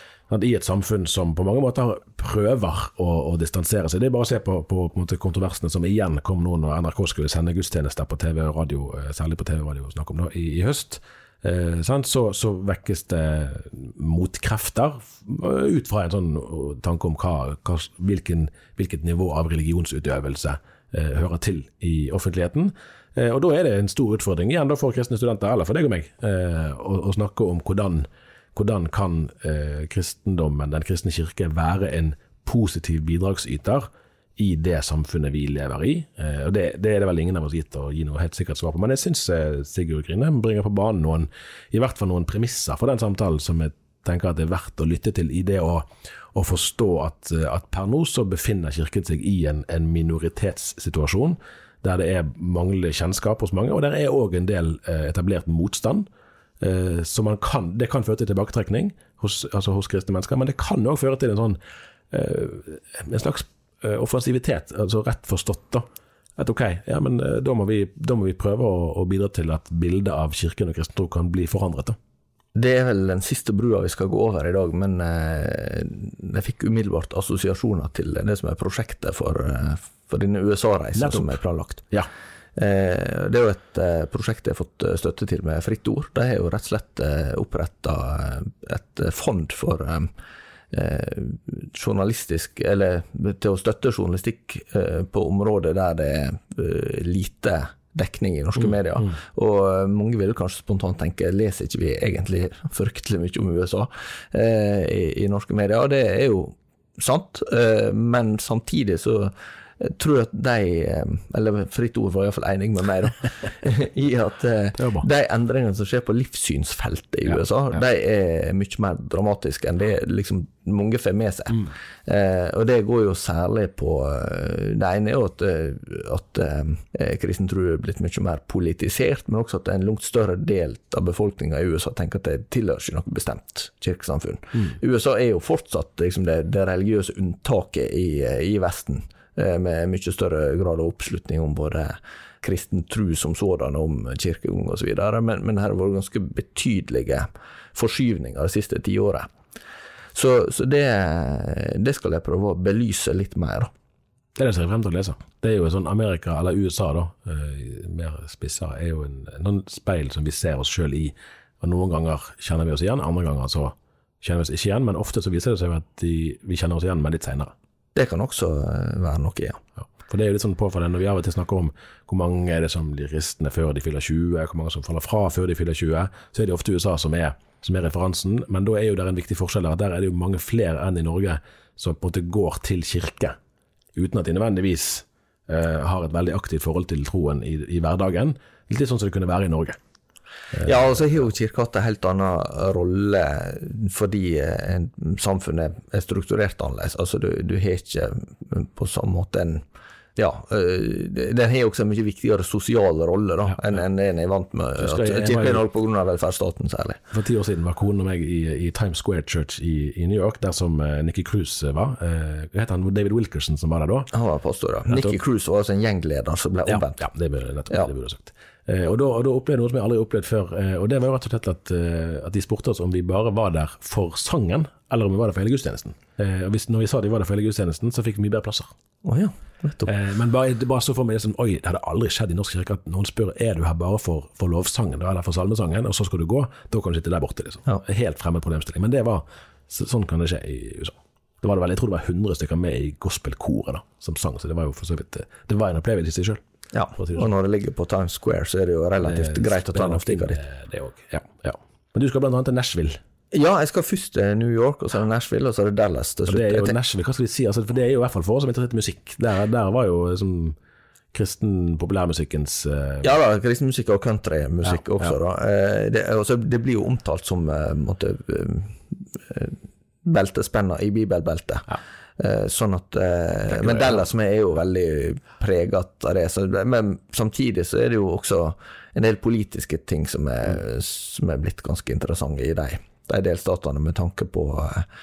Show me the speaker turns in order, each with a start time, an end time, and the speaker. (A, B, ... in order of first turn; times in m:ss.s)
0:00.3-0:56.1 A
0:56.6-1:01.6 A
1:02.1-1:05.9 A
1:06.4-1:12.0 A
1:12.6-1:21.8 B
1:21.0-1:22.1 A
1:22.6-1:30.1 B
1:30.7-2:29.3 B
1:38.6-1:39.1 A
1:54.8-1:55.1 A
2:30.1-2:33.7 B
2:34.4-2:47.5 A
2:47.9-2:49.6 B
2:50.0-3:03.4 A
3:03.9-3:09.8 A
3:10.5-3:11.0 A
3:10.6-3:19.6 B
3:20.2-3:27.0 B
3:24.8-3:25.6 A
3:27.1-3:34.1 A
3:34.1-3:37.0 B
3:34.9-3:35.2 A
3:36.6-3:48.7 A
3:49.0-3:49.9 B
3:49.9-4:06.4 A
4:06.7-4:10.4 B
4:07.0-4:07.3 A
4:09.0-4:13.0 A
4:13.3-4:16.7 B
4:16.3-4:20.6 A
4:21.1-4:23.1 A
4:23.0-4:31.7 B
4:24.6-4:25.2 A
4:32.2-4:44.9 B
4:33.5-4:34.0 A